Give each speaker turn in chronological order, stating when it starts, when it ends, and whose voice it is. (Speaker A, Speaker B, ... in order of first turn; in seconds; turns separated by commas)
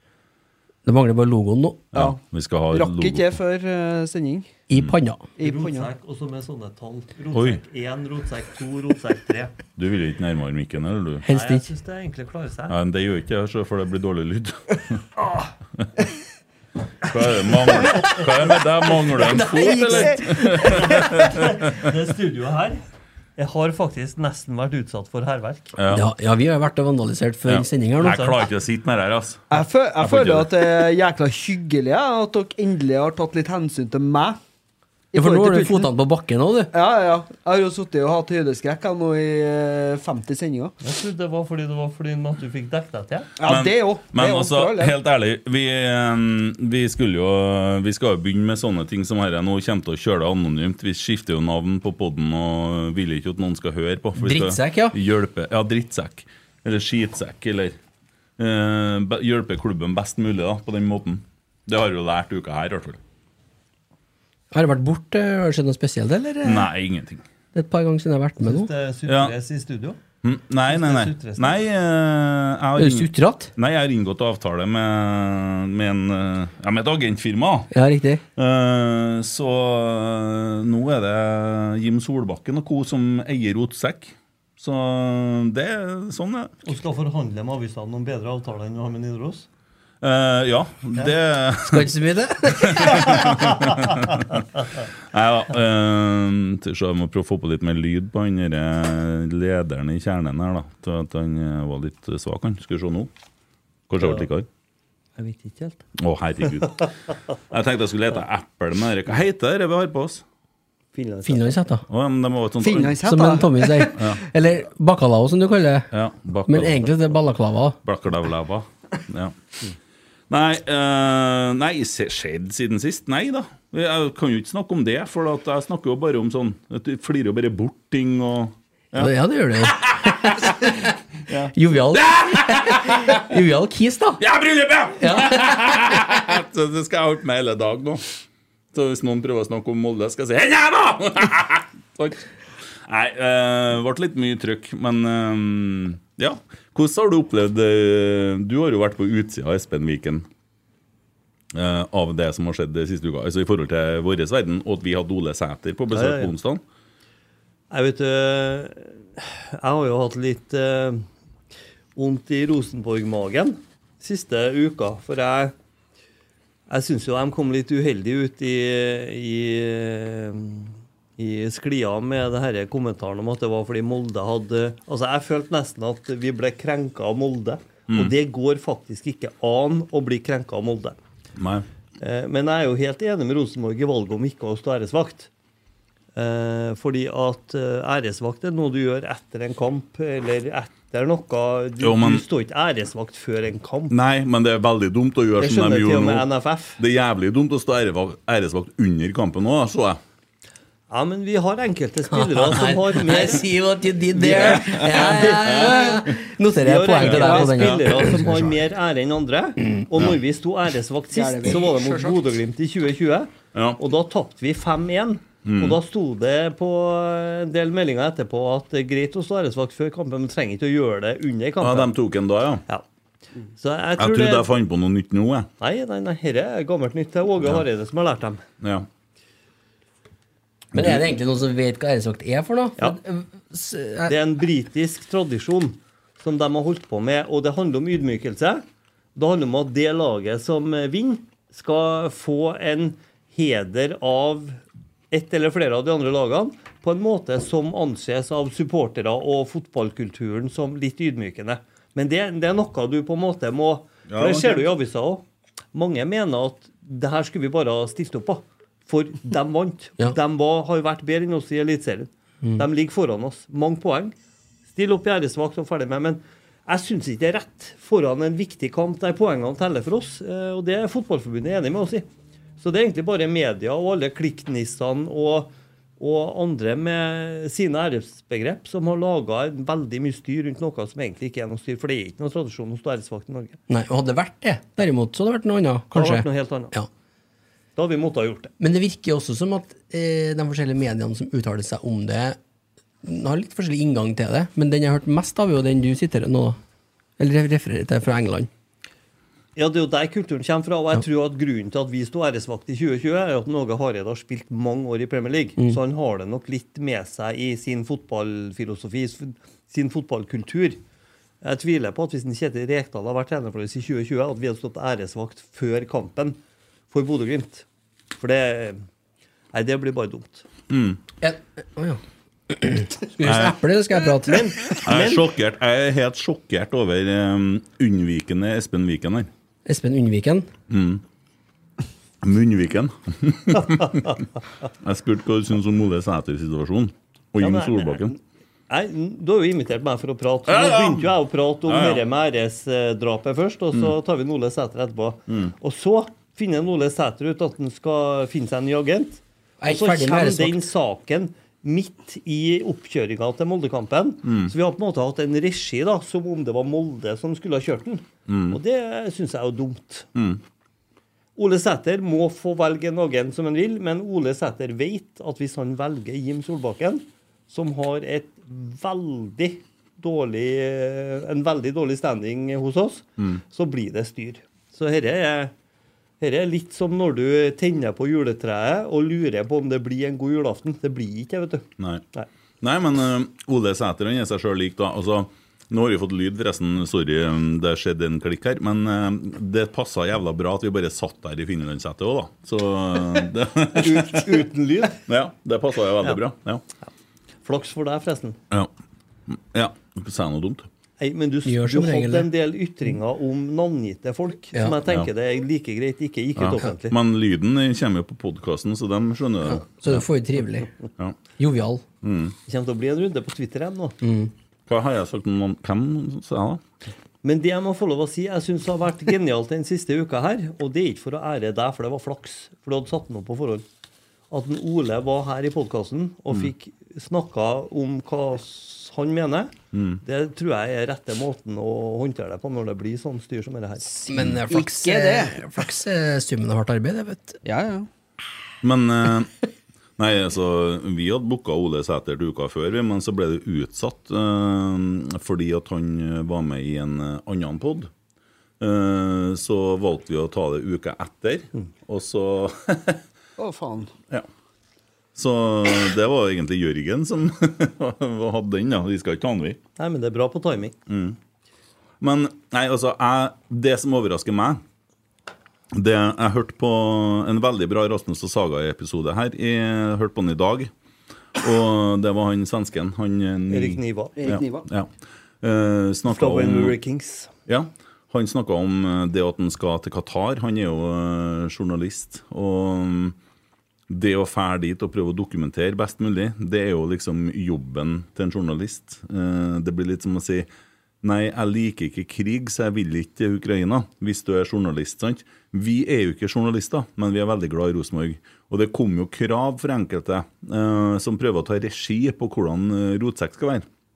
Speaker A: 0.8-1.9, Speaker B: 1.9-3.4, Speaker C: 2.7-4.5, Speaker A: 4.7-5.2, Speaker B: 4.7-5.0, Speaker C: 5.4-5.9, Speaker D: 5.4-9.5, Speaker B: 7.3-7.6, Speaker B: 9.8-11.2, Speaker A: 11.2-11.7, Speaker D: 11.3-12.8, Speaker B: 12.7-15.1, Speaker B: 17.0-21.9, Speaker C: 19.3-20.9, Speaker D: 19.4-22.8, Speaker D: 23.4-25.8, Speaker B: 25.8-26.1, Speaker A: 25.9-28.4, Speaker B: 27.4-30.6, Speaker C: 29.5-34.4, Speaker C: 35.1-35.9, Speaker A: 35.1-36.7, Speaker C: 36.7-40.7, Speaker D: 40.8-43.3, Speaker C: 43.4-45.0, Speaker B: 43.5-57.8, Speaker A: 54.2-55.0, Speaker B: 58.4-63.0, Speaker A: 64.5-66.7, Speaker B: 66.4-67.2, Speaker A: 67.5-68.7, Speaker D: 68.4-70.0, Speaker B: 69.1-69.3, Speaker B: 70.2-77.7, Speaker D: 70.7-71.6, Speaker A: 72.8-73.5, Speaker A: 77.7-78.2, Speaker B: 78.3-86.5, Speaker D: 86.6-89.5, Speaker B: 90.0-94.4, Speaker A: 91.6-93.5, Speaker B: 95.0-103.1, Speaker B: 103.9-104.5, Speaker D: 104.0-104.2, Speaker D: 105.2-105.8, Speaker B: 106.0-107.0, Speaker B: 107.5-110.2, Speaker D: 110.9-111.6, Speaker A: 111.2-111.8, Speaker B: 111.9-113.0, Speaker C: 112.6-114.0, Speaker A: 113.0-115.9, Speaker B: 113.9-114.2, Speaker B: 115.9-117.1, Speaker A: 116.5-117.8, Speaker B: 117.8-119.3, Speaker B: 120.3-130.5, Speaker A: 128.9-130.9, Speaker B: 131.3-133.3, Speaker A: 131.5-134.2, Speaker B: 134.2-138.1, Speaker A: 135.0-135.9, Speaker B: 138.7-142.3, Speaker B: 142.8-150.3, Speaker B: 151.5-156.6, Speaker D: 155.9-156.3, Speaker D: 157.7-161.1, Speaker D: 161.9-165.5, Speaker D: 166.7-181.0, Speaker B: 181.4-181.7, Speaker D: 182.0-185.3, Speaker D: 186.1-193.9, Speaker B: 191.8-192.2, Speaker B: 193.9-196.2, Speaker D: 195.4-196.8, Speaker B: 196.8-200.0, Speaker D: 200.9-203.5, Speaker A: 202.1-208.3, Speaker D: 204.1-221.9, Speaker B: 204.6-205.8, Speaker B: 207.0-208.5, Speaker C: 211.1-212.2, Speaker B: 213.5-213.8, Speaker B: 215.4-215.8, Speaker B: 221.6-222.6, Speaker D: 223.6-224.5, Speaker B: 224.0-225.5, Speaker D: 225.6-228.4, Speaker B: 228.6-228.9, Speaker A: 230.7-234.1, Speaker B: 230.7-231.0, Speaker D: 234.1-238.6, Speaker D: 239.2-264.1, Speaker B: 254.1-254.7, Speaker D: 264.7-272.1, Speaker D: 272.6-283.6, Speaker A: 283.7-286.9, Speaker D: 285.9-286.7, Speaker D: 287.8-288.5, Speaker A: 288.6-292.4, Speaker A: 293.0-296.6, Speaker A: 297.2-298.5, Speaker D: 299.6-310.8, Speaker D: 311.4-316.4, Speaker D: 316.9-317.6, Speaker D: 318.2-318.8, Speaker D: 319.5-320.5, Speaker B: 320.7-321.0, Speaker A: 321.2-324.4, Speaker B: 323.2-323.6, Speaker D: 324.2-325.2, Speaker B: 324.8-329.3, Speaker A: 329.6-330.5, Speaker B: 330.7-331.0, Speaker B: 332.2-338.1, Speaker D: 337.4-360.1, Speaker B: 340.5-341.1, Speaker B: 341.6-342.0, Speaker B: 345.3-345.5, Speaker A: 349.6-350.7, Speaker B: 354.2-354.5, Speaker B: 358.3-358.6, Speaker B: 360.1-360.4, Speaker D: 361.4-375.5, Speaker D: 376.2-382.3, Speaker B: 381.8-382.0, Speaker B: 382.6-396.6, Speaker D: 393.7-395.0, Speaker D: 397.4-398.4, Speaker B: 399.3-400.7, Speaker D: 401.0-406.9, Speaker A: 401.4-402.3, Speaker B: 406.4-410.1, Speaker A: 409.5-410.7, Speaker A: 411.4-411.8, Speaker B: 412.0-412.4, Speaker D: 412.5-414.0, Speaker A: 414.0-414.3, Speaker B: 414.7-416.6, Speaker D: 417.2-423.6, Speaker D: 424.3-433.9, Speaker B: 429.7-430.0, Speaker A: 434.0-437.4, Speaker B: 434.1-434.4, Speaker C: 434.5-435.6, Speaker C: 437.4-437.9, Speaker B: 438.6-439.3, Speaker B: 440.0-447.9, Speaker B: 448.6-453.0, Speaker C: 453.4-453.9, Speaker B: 455.1-459.6, Speaker D: 459.8-460.7, Speaker B: 460.9-461.2, Speaker B: 462.0-464.6, Speaker B: 465.7-470.7, Speaker B: 471.4-474.9, Speaker D: 473.5-474.3, Speaker C: 474.2-474.7, Speaker B: 475.4-476.8, Speaker D: 476.1-477.3, Speaker B: 477.5-483.1, Speaker B: 483.9-490.5, Speaker B: 491.0-503.6